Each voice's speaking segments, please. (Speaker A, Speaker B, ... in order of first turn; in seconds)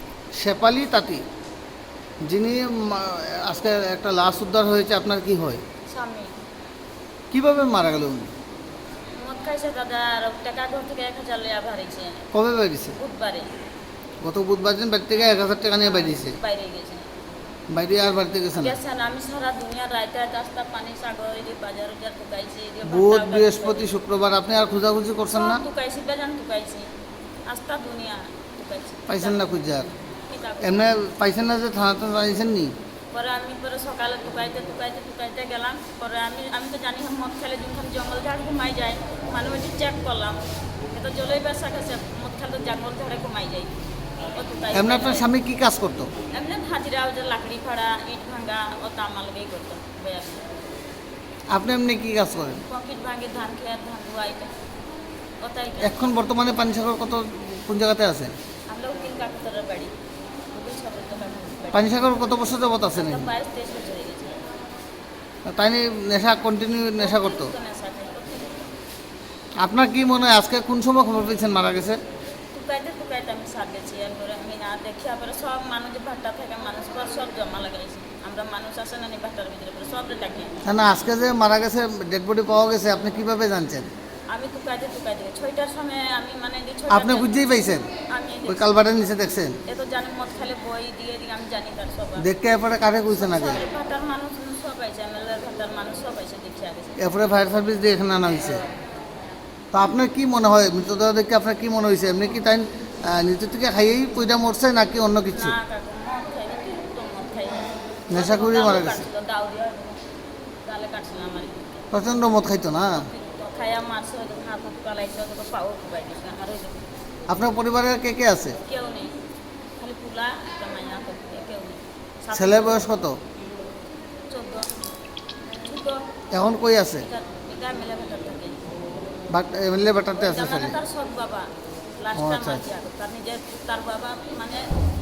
Speaker A: 0.4-1.2, 2.3-5.6, 7.3-8.3, 12.3-13.0, 14.2-16.4, 17.7-18.8, 22.9-25.6, 29.1-30.1, 30.6-32.7, 44.7-46.1, 51.5-52.6, 55.8-58.3, 61.7-63.3, 65.5-67.5, 69.6-72.0, 80.6-83.9, 86.9-87.9, 88.5-89.6, 92.2-93.7, 97.0-98.6, 99.7-105.6, 108.1-109.1, 111.9-113.1, 117.3-118.6, 122.3-123.2, 126.3-127.1, 129.3-130.8, 132.2-132.6
Speaker B: 5.9-6.3, 9.2-12.3, 13.0-13.5, 15.8-17.1, 18.5-23.9, 25.3-26.9, 27.5-29.6, 30.1-31.0, 33.1-40.4, 40.9-43.7, 44.4-45.3, 46.3-50.5, 52.6-54.5, 55.4-56.1, 58.7-59.9, 60.5-62.1, 62.9-64.4, 66.9-68.7, 72.5-80.6, 84.3-88.8, 89.7-92.3, 93.1-97.2, 98.4-98.6, 105.3-110.0, 110.7-111.7, 113.0-116.9, 118.6-119.1, 119.8-122.9, 124.3-124.7, 125.6-126.0, 127.0-128.6, 130.2-131.5, 132.0-134.7